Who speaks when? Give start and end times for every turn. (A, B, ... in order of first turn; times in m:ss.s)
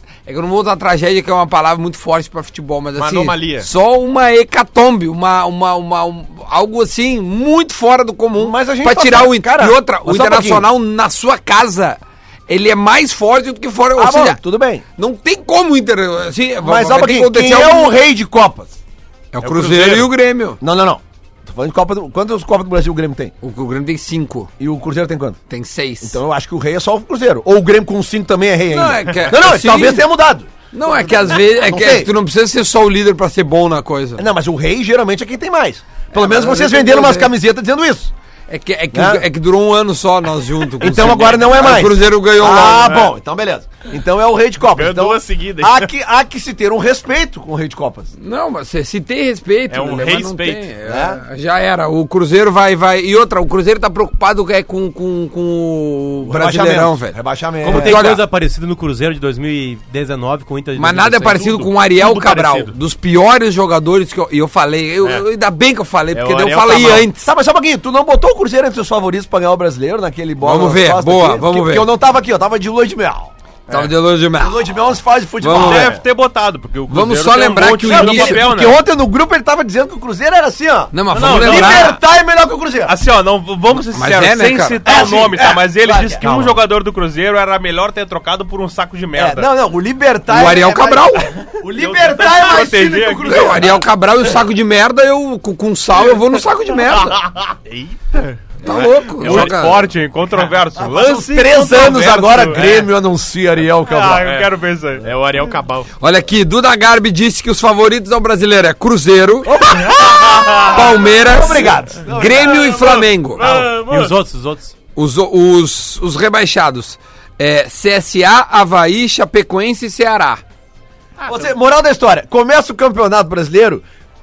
0:00.2-0:14.4 A
0:03.0-0:03.7 B
0:08.4-0:10.7 C
0:14.0-0:14.8 C
0:15.0-0:17.9 A
0:16.6-0:18.8 C
0:19.3-0:20.6 A
0:19.4-0:20.1 B
0:20.6-0:23.3 C
0:23.4-0:24.5 A
0:24.6-0:25.4 C
0:25.5-0:26.2 A
0:26.0-0:32.1 C
0:28.7-0:30.1 A
0:30.7-0:34.3 A
0:34.2-0:38.1 C
0:36.1-0:37.3 A
0:38.5-0:43.0 A
0:38.9-0:39.2 C
0:40.8-0:48.1 C
0:42.8-0:43.1 B
0:44.7-0:45.9 B
0:48.2-0:58.2 A
0:49.7-0:50.7 B
0:50.8-0:51.2 C
0:56.2-0:58.1 C
0:57.6-1:01.6 D
1:00.8-1:07.3 A
1:01.3-1:02.7 B
1:06.1-1:07.1 B
1:07.2-1:13.3 C
1:10.4-1:11.9 A
1:13.7-1:14.7 A
1:14.4-1:16.0 C
1:15.4-1:15.9 A
1:15.5-1:18.8 E
1:16.9-1:18.4 A
1:17.8-1:22.9 C
1:20.9-1:22.0 A
1:21.1-1:22.0 E
1:22.8-1:29.5 E
1:23.8-1:24.8 A
1:24.8-1:26.5 C
1:29.1-1:33.8 C
1:30.3-1:31.3 A
1:31.7-1:33.7 E
1:33.3-1:37.2 A
1:37.4-1:38.5 B
1:38.6-1:39.9 A
1:39.2-1:42.9 E
1:39.2-1:39.5 B
1:40.8-1:44.4 C
1:43.8-1:45.1 E
1:45.0-1:45.9 B
1:46.0-1:49.8 A
1:49.4-1:53.0 C
1:49.8-1:51.0 E
1:50.6-1:53.5 A
1:52.5-1:54.1 B
1:53.4-1:53.7 E
1:53.4-1:54.7 D
1:55.0-2:00.4 A
2:01.2-2:03.8 C